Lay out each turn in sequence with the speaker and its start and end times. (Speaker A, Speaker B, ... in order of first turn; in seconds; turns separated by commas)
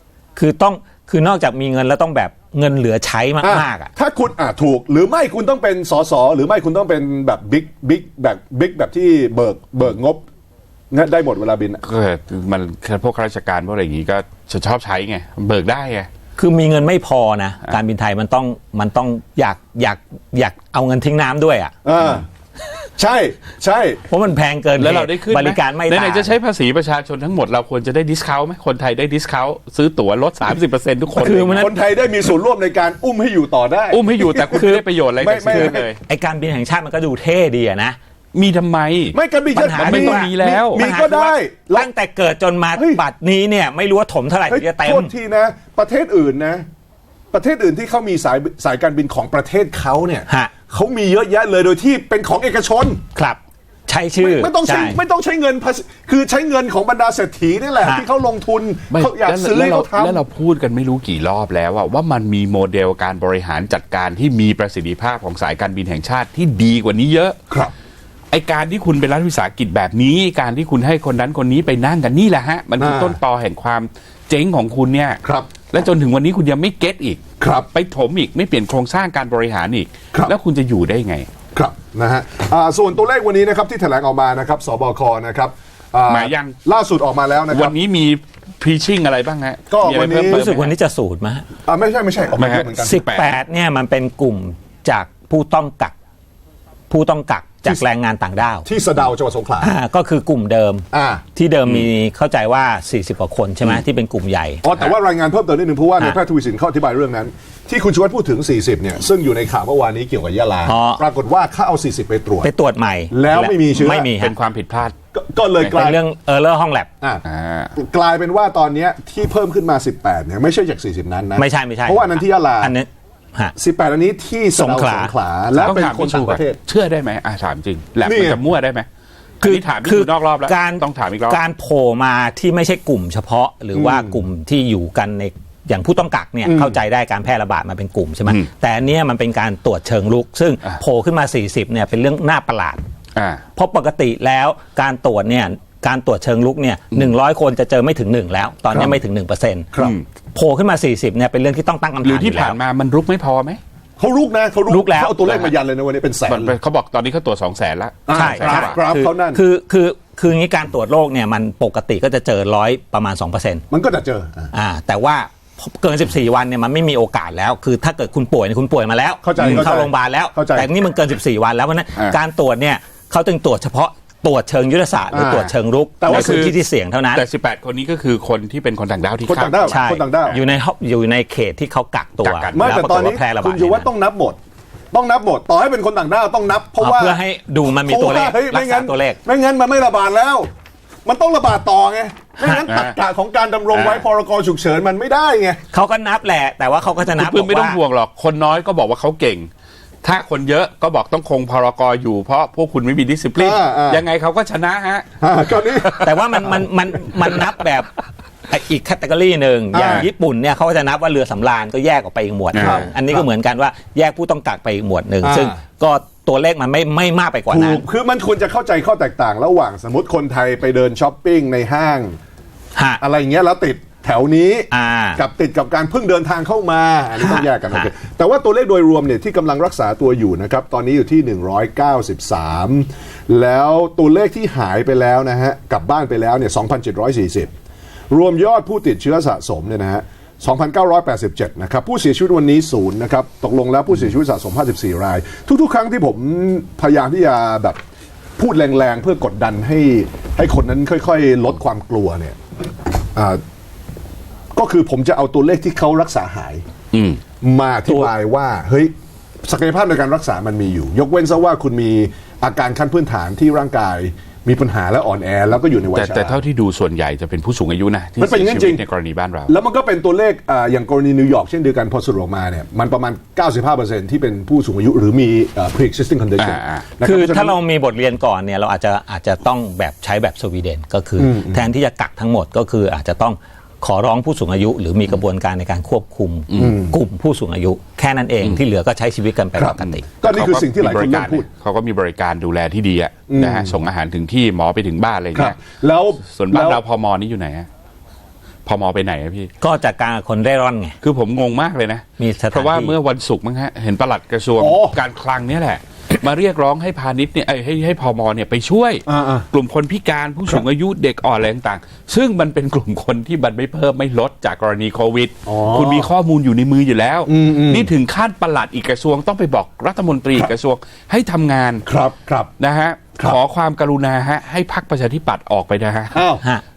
Speaker A: 0.4-3.9, Speaker B: 3.4-10.2, Speaker B: 10.9-11.8, Speaker C: 11.8-16.1, Speaker A: 16.4-21.7, Speaker B: 21.8-22.3, Speaker B: 23.0-24.0, Speaker A: 24.1-26.3, Speaker C: 24.8-31.7, Speaker A: 31.2-31.8, Speaker B: 31.3-35.9, Speaker C: 33.9-36.0, Speaker A: 35.5-38.0, Speaker C: 38.3-39.2, Speaker B: 39.1-41.9, Speaker A: 39.5-45.1, Speaker C: 39.8-40.8, Speaker B: 42.8-43.0, Speaker B: 44.5-46.6, Speaker B: 47.3-53.0, Speaker A: 53.1-55.0, Speaker B: 54.2-60.2, Speaker A: 57.8-58.1, Speaker C: 58.9-67.4, Speaker C: 68.3-81.3, Speaker B: 72.8-73.2, Speaker B: 75.2-75.5, Speaker B: 77.4-77.7, Speaker B: 81.5-87.8, Speaker C: 86.1-86.6, Speaker C: 87.5-90.7, Speaker B: 89.7-90.5, Speaker A: 90.3-91.5, Speaker B: 91.7-93.0, Speaker C: 92.4-93.4, Speaker A: 92.8-96.0, Speaker A: 96.9-98.7, Speaker B: 98.7-99.7, Speaker A: 99.6-104.6, Speaker B: 100.9-101.2, Speaker B: 104.6-112.5, Speaker A: 110.7-111.0, Speaker A: 112.4-114.3, Speaker B: 113.1-114.1, Speaker C: 114.0-115.0, Speaker B: 115.1-116.0, Speaker A: 115.6-116.9, Speaker C: 117.2-117.7, Speaker B: 117.8-122.7, Speaker A: 121.4-123.5, Speaker B: 123.6-126.6, Speaker A: 124.5-125.1, Speaker C: 125.6-128.9, Speaker B: 128.0-128.4, Speaker A: 129.4-142.8, Speaker C: 129.4-131.4, Speaker B: 133.8-134.2, Speaker B: 136.4-136.8, Speaker C: 143.2-143.4, Speaker A: 143.6-149.7, Speaker B: 148.7-149.0, Speaker C: 149.8-150.0, Speaker A: 150.3-152.6, Speaker C: 152.0-153.6, Speaker B: 154.0-156.6, Speaker A: 154.7-155.5, Speaker C: 156.3-158.8, Speaker B: 158.1-159.4, Speaker A: 158.1-163.7, Speaker B: 163.7-164.5, Speaker A: 164.5-177.2, Speaker B: 169.2-170.7, Speaker C: 169.4-169.7, Speaker B: 175.1-176.5, Speaker C: 176.1-176.6, Speaker C: 177.1-179.8, Speaker B: 179.2-180.4, Speaker A: 179.7-183.9, Speaker C: 182.2-182.7, Speaker B: 182.5-184.4, Speaker B: 184.9-187.2, Speaker A: 186.8-189.2, Speaker B: 187.8-190.5, Speaker B: 191.1-195.6, Speaker C: 192.5-193.0, Speaker C: 193.7-194.0, Speaker A: 195.7-197.8, Speaker C: 197.1-199.5, Speaker C: 200.0-205.1, Speaker B: 203.4-204.1, Speaker B: 205.2-206.5, Speaker C: 205.6-206.3, Speaker A: 206.0-207.9, Speaker A: 208.5-217.8, Speaker B: 209.7-210.1, Speaker C: 212.5-212.9, Speaker B: 212.6-213.3, Speaker B: 215.2-215.6, Speaker B: 217.5-222.2, Speaker A: 222.8-223.0, Speaker B: 223.0-237.5, Speaker A: 224.7-225.2, Speaker A: 227.2-227.9, Speaker B: 238.1-247.8, Speaker B: 248.4-252.4, Speaker B: 253.2-253.4, Speaker B: 254.5-256.6, Speaker C: 256.9-257.2, Speaker B: 257.4-258.9, Speaker B: 259.4-266.4, Speaker C: 265.9-269.5, Speaker B: 268.2-268.8, Speaker B: 269.5-277.6, Speaker C: 276.4-276.9, Speaker A: 277.0-290.0, Speaker B: 281.2-281.7, Speaker B: 286.6-287.0, Speaker B: 289.6-291.5, Speaker C: 289.8-295.6, Speaker B: 293.3-293.8, Speaker B: 295.4-296.8, Speaker C: 296.3-297.7, Speaker C: 298.7-299.5, Speaker A: 299.6-301.0, Speaker C: 301.0-321.9, Speaker A: 302.2-302.9, Speaker B: 304.6-305.0, Speaker B: 309.1-309.5, Speaker B: 315.5-316.1, Speaker B: 317.3-317.9, Speaker B: 321.9-322.5, Speaker C: 322.6-326.2, Speaker B: 326.1-326.4